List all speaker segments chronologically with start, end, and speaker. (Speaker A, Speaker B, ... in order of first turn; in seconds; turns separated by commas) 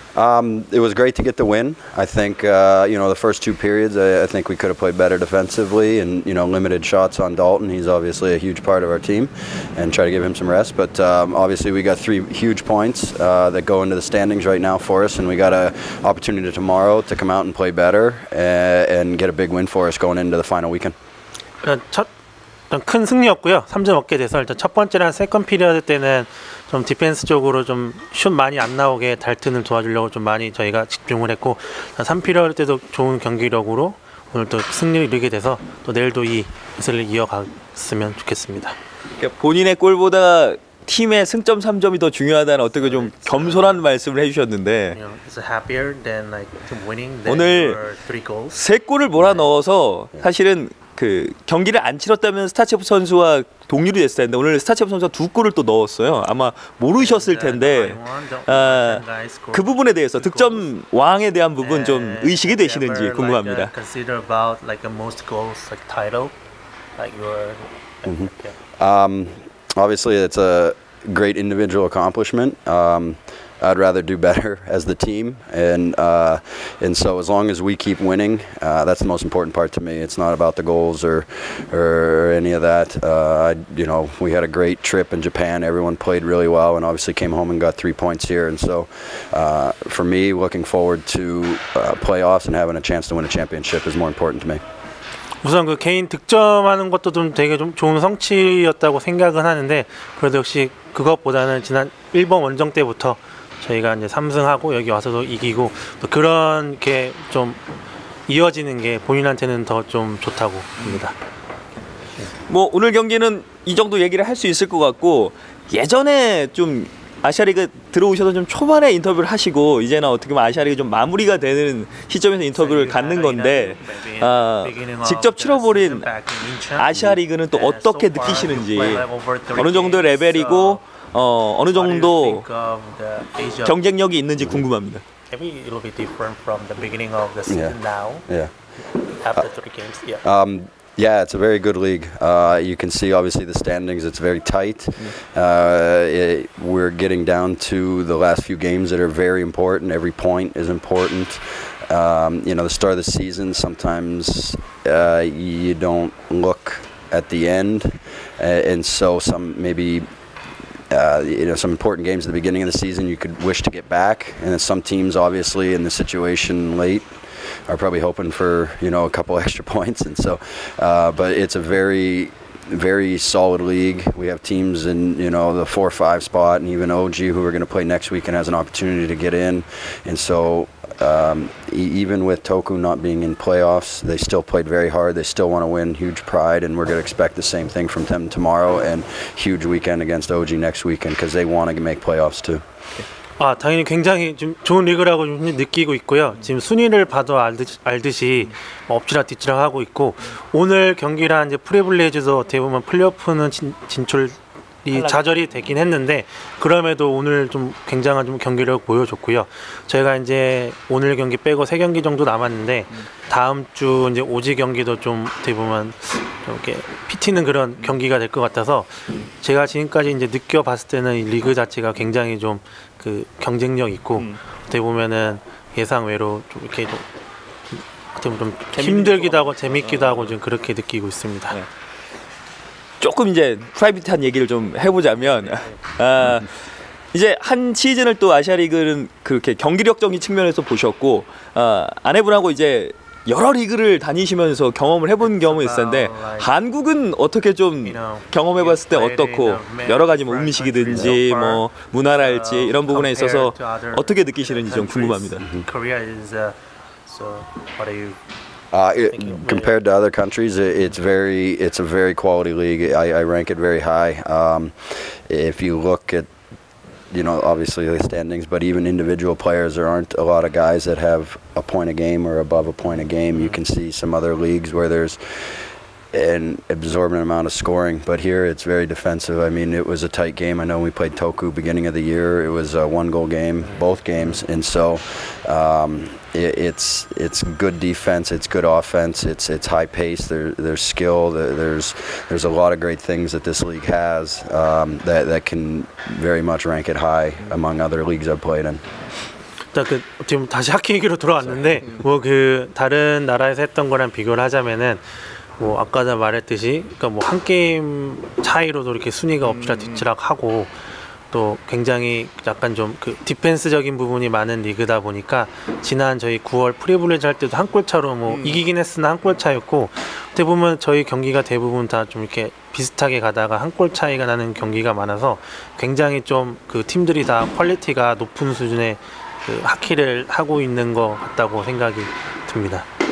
Speaker A: 0.1-20.9, Speaker B: 21.6-22.1, Speaker B: 22.7-38.8, Speaker C: 39.2-45.0, Speaker B: 42.8-43.8, Speaker B: 44.9-48.6, Speaker C: 47.3-47.8, Speaker C: 48.5-63.7, Speaker B: 57.0-60.7, Speaker B: 61.6-66.4, Speaker B: 67.0-68.6, Speaker A: 68.1-94.6, Speaker B: 95.4-107.6, Speaker B: 108.3-111.2, Speaker C: 112.5-126.1, Speaker B: 122.5-130.8, Speaker C: 126.7-132.4, Speaker B: 131.7-133.8, Speaker C: 133.7-135.0, Speaker B: 135.3-138.3, Speaker A: 137.5-137.8, Speaker B: 139.2-140.2, Speaker A: 140.2-160.1, Speaker A: 160.9-167.1, Speaker A: 167.7-192.6, Speaker B: 193.4-227.1, Speaker C: 204.9-205.7, Speaker B: 228.1-231.6, Speaker C: 228.7-230.3, Speaker C: 233.0-236.5, Speaker B: 235.2-235.8, Speaker C: 237.1-255.5, Speaker B: 245.2-246.5, Speaker B: 247.8-258.2, Speaker A: 258.7-266.3, Speaker B: 259.1-259.7, Speaker A: 267.1-275.5, Speaker A: 276.1-298.8, Speaker B: 299.7-305.0, Speaker C: 301.8-302.0, Speaker B: 305.6-310.7, Speaker C: 309.4-310.1, Speaker B: 311.3-332.9, Speaker C: 318.3-318.6